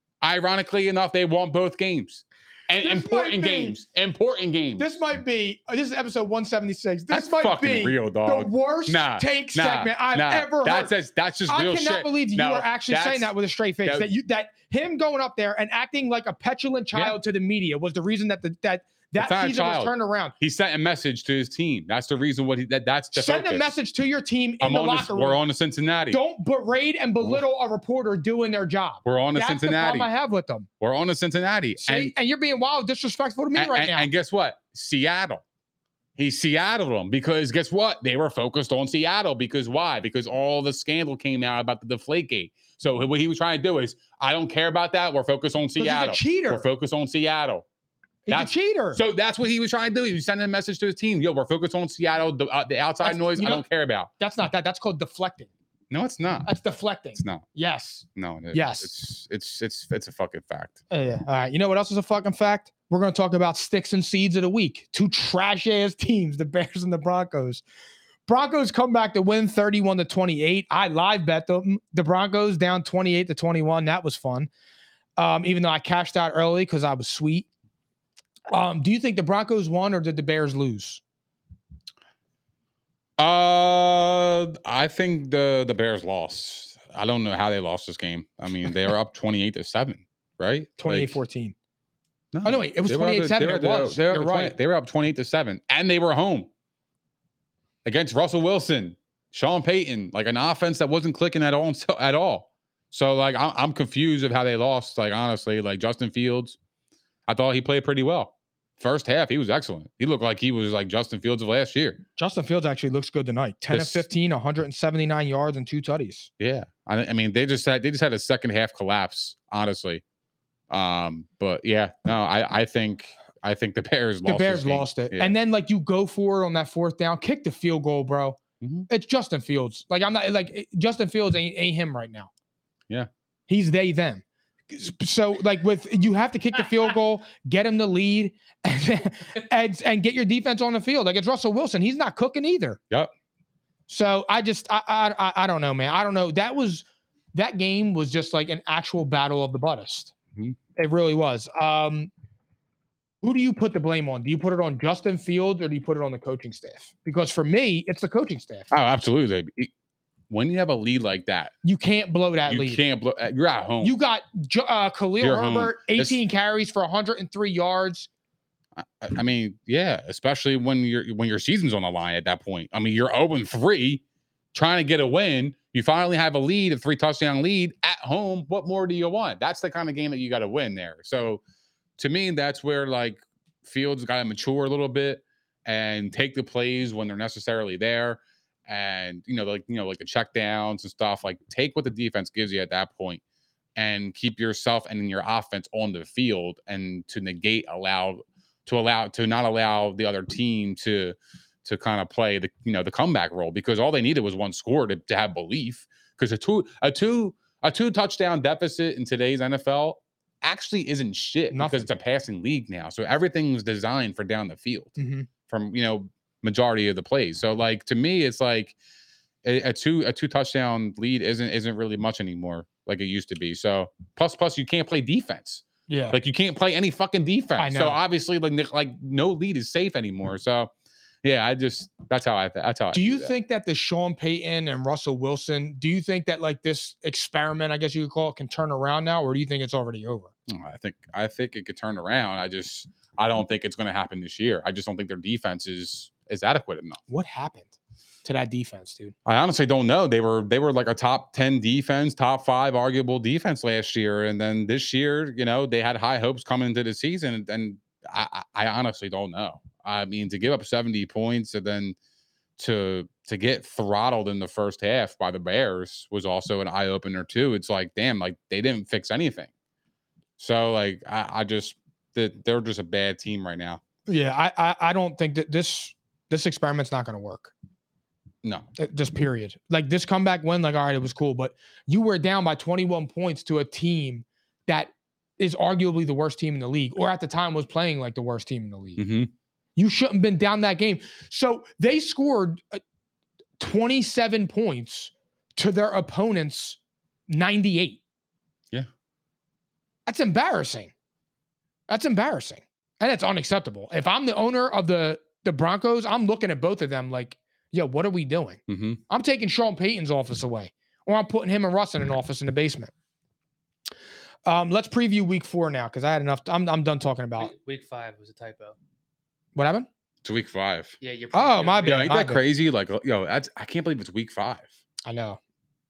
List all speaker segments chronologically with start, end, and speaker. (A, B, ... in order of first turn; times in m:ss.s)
0:00.2-0:05.0 A
0:02.8-0:03.7 B
0:04.8-0:10.9 B
0:07.1-0:13.3 A
0:11.5-0:20.4 B
0:19.2-0:23.7 A
0:23.1-0:25.4 B
0:24.6-0:26.2 A
0:26.1-0:30.7 B
0:29.0-0:30.1 A
0:30.8-0:32.1 A
0:31.8-0:34.1 B
0:33.6-0:35.4 A
0:36.2-0:47.6 A
0:45.8-0:46.7 B
0:48.3-0:49.0 B
0:48.3-0:54.1 A
0:53.0-0:53.6 B
0:54.2-0:55.5 B
0:55.9-0:56.5 A
0:56.4-0:58.9 B
0:57.2-0:57.4 A
0:58.2-1:00.8 A
1:00.9-1:07.6 B
1:08.3-1:14.5 B
1:15.2-1:17.5 B
1:18.5-1:21.0 B
1:23.2-1:31.2 A
1:30.8-1:31.6 B
1:32.3-1:36.5 A
1:32.4-1:34.6 B
1:37.8-1:46.6 A
1:47.3-1:52.0 A
1:52.2-1:56.3 B
1:53.7-1:54.0 A
1:56.4-2:00.0 A
2:00.7-2:05.4 A
2:04.3-2:12.3 B
2:08.6-2:08.9 A
2:13.5-2:22.8 B
2:23.9-2:30.1 B
2:30.8-2:32.1 B
2:33.2-2:38.7 B
2:38.7-2:39.7 A
2:40.3-2:41.5 A
2:41.6-2:42.8 B
2:42.5-2:44.0 A
2:43.8-2:48.1 B
2:45.2-2:46.2 A
2:48.8-2:54.0 A
2:54.5-3:01.4 A
3:02.0-3:13.2 A
3:13.8-3:35.0 A
3:31.5-3:31.9 B
3:35.0-3:35.3 B
3:35.5-3:38.7 A
3:39.4-3:50.7 A
3:45.9-3:46.2 B
3:47.6-3:48.0 B
3:51.2-3:53.3 A
3:52.9-4:00.3 B
4:00.5-4:07.0 A
4:07.1-4:07.7 B
4:08.2-4:09.2 B
4:09.3-4:22.0 A
4:22.6-4:29.5 A
4:30.4-4:33.8 A
4:34.1-4:37.5 B
4:38.8-4:49.0 B
4:49.0-4:49.3 A
4:49.8-4:52.8 B
4:53.6-4:58.0 B
5:00.1-5:00.9 B
5:01.9-5:12.9 B
5:08.7-5:09.0 A
5:14.4-5:17.5 B
5:17.4-5:18.8 C
5:19.6-5:19.9 B
5:20.2-5:21.0 A
5:21.0-5:22.0 C
5:21.3-5:22.4 B
5:21.8-5:24.7 A
5:25.0-5:25.4 B